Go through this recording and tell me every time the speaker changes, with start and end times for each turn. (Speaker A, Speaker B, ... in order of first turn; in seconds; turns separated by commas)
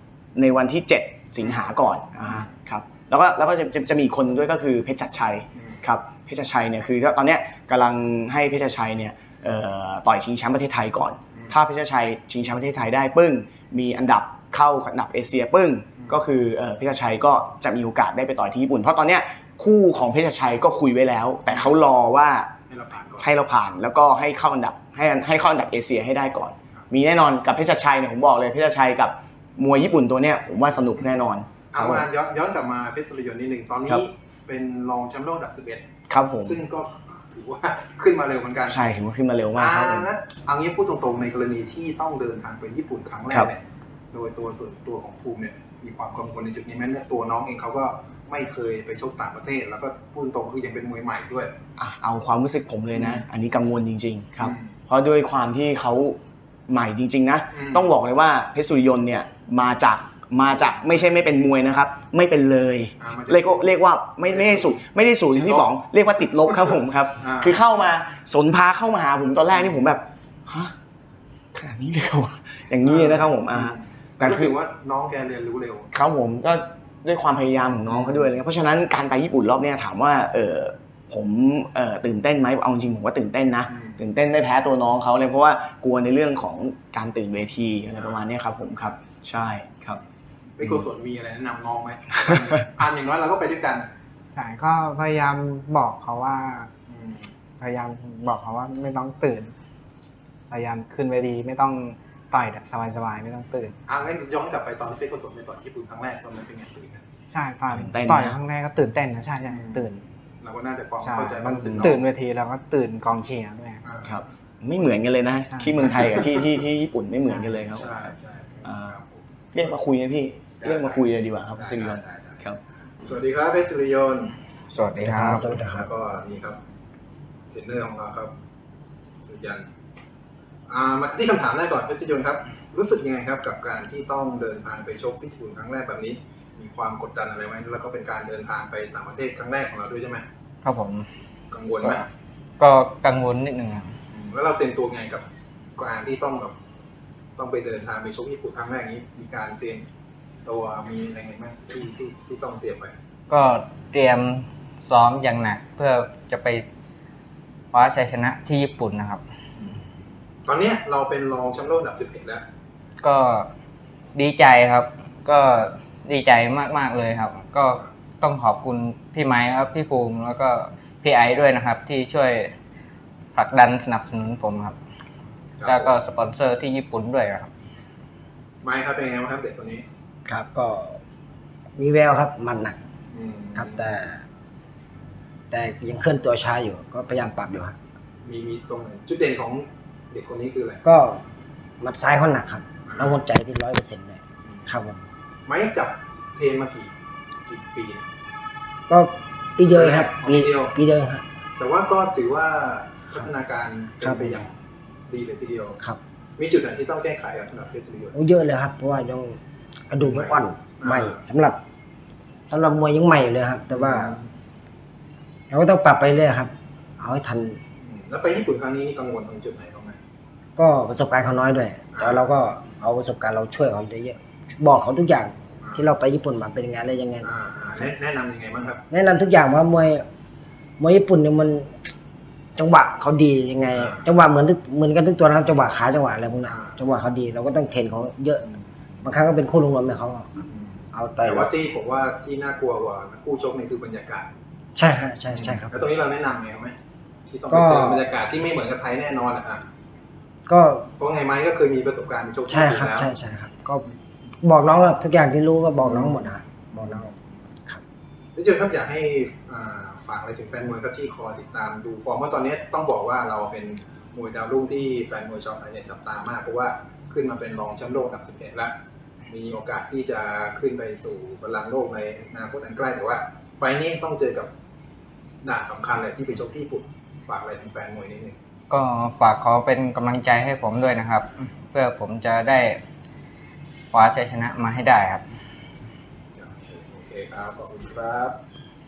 Speaker A: 0.3-22.5, Speaker B: 1.4-2.5, Speaker B: 5.5-5.8, Speaker B: 11.3-11.6, Speaker B: 16.0-16.2, Speaker B: 21.5-21.7, Speaker B: 22.7-23.3, Speaker A: 23.2-32.0, Speaker B: 31.7-35.9, Speaker A: 36.1-36.6, Speaker B: 36.4-38.9, Speaker A: 38.7-40.1, Speaker B: 39.5-51.5, Speaker A: 51.8-70.7, Speaker B: 52.9-53.3, Speaker B: 54.4-54.7, Speaker B: 57.5-57.9, Speaker B: 63.0-63.7, Speaker B: 64.3-65.7, Speaker B: 66.4-67.6, Speaker B: 69.6-69.8, Speaker A: 71.5-74.5, Speaker B: 72.8-75.9, Speaker A: 75.9-90.0, Speaker B: 77.8-78.3, Speaker B: 83.7-84.0, Speaker B: 87.9-88.2, Speaker B: 90.5-93.9, Speaker C: 94.3-96.7, Speaker B: 96.9-97.3, Speaker C: 97.6-99.5, Speaker C: 100.5-103.8, Speaker B: 103.9-107.0, Speaker C: 107.3-110.0, Speaker A: 107.7-108.4, Speaker B: 109.5-109.9, Speaker B: 110.4-112.0, Speaker C: 111.0-113.8, Speaker A: 111.7-112.0, Speaker B: 113.8-114.2, Speaker A: 114.0-118.1, Speaker C: 115.5-116.0, Speaker C: 117.2-117.6, Speaker B: 117.7-119.8, Speaker A: 118.6-118.9, Speaker A: 119.5-122.6, Speaker B: 120.6-122.4, Speaker B: 123.0-124.3, Speaker D: 124.7-125.2, Speaker C: 124.9-125.4, Speaker E: 125.0-125.8, Speaker B: 125.7-126.6, Speaker B: 127.5-128.3, Speaker B: 129.2-129.7, Speaker B: 130.7-140.2, Speaker D: 140.6-141.1, Speaker B: 141.5-142.1, Speaker D: 142.6-143.9, Speaker B: 144.1-145.2, Speaker B: 145.8-146.6, Speaker B: 147.4-149.8, Speaker B: 150.4-152.9, Speaker D: 153.3-156.7, Speaker D: 157.7-159.2, Speaker B: 160.4-162.4, Speaker D: 163.0-163.5, Speaker D: 164.1-172.5, Speaker D: 173.3-174.8, Speaker B: 175.6-176.0, Speaker D: 175.6-177.5, Speaker B: 178.6-179.8, Speaker E: 180.2-181.0, Speaker E: 181.8-182.8, Speaker B: 183.1-183.9, Speaker E: 183.6-184.2, Speaker E: 185.5-187.8, Speaker B: 188.2-190.8, Speaker E: 190.8-191.2, Speaker E: 191.8-195.0, Speaker B: 192.8-193.2, Speaker B: 195.4-196.9, Speaker B: 197.4-198.1, Speaker E: 198.9-201.2, Speaker B: 199.6-200.7, Speaker B: 201.6-204.6, Speaker E: 204.0-204.4, Speaker B: 205.1-205.8, Speaker B: 206.4-208.1, Speaker E: 208.1-211.6, Speaker B: 210.0-211.2, Speaker E: 212.5-214.2, Speaker B: 213.7-214.3, Speaker E: 215.5-217.6, Speaker B: 217.8-220.0, Speaker E: 220.6-227.3, Speaker B: 221.9-222.4, Speaker B: 225.6-225.9, Speaker B: 227.2-228.8, Speaker E: 228.9-230.1, Speaker E: 230.8-231.7, Speaker E: 232.6-238.5, Speaker B: 233.7-234.1, Speaker B: 236.4-236.8, Speaker B: 238.4-239.0, Speaker E: 239.0-240.3, Speaker B: 240.4-244.3, Speaker E: 240.9-241.5, Speaker E: 244.7-245.7, Speaker B: 245.3-246.8, Speaker B: 247.3-249.7, Speaker E: 247.5-248.0, Speaker E: 250.5-250.9, Speaker B: 251.0-253.1, Speaker E: 252.5-253.8, Speaker E: 254.4-257.8, Speaker B: 255.8-256.3, Speaker B: 256.8-257.1, Speaker B: 258.3-268.8, Speaker B: 269.3-274.5, Speaker B: 275.4-278.4, Speaker D: 278.7-282.8, Speaker D: 283.9-285.2, Speaker B: 286.4-288.4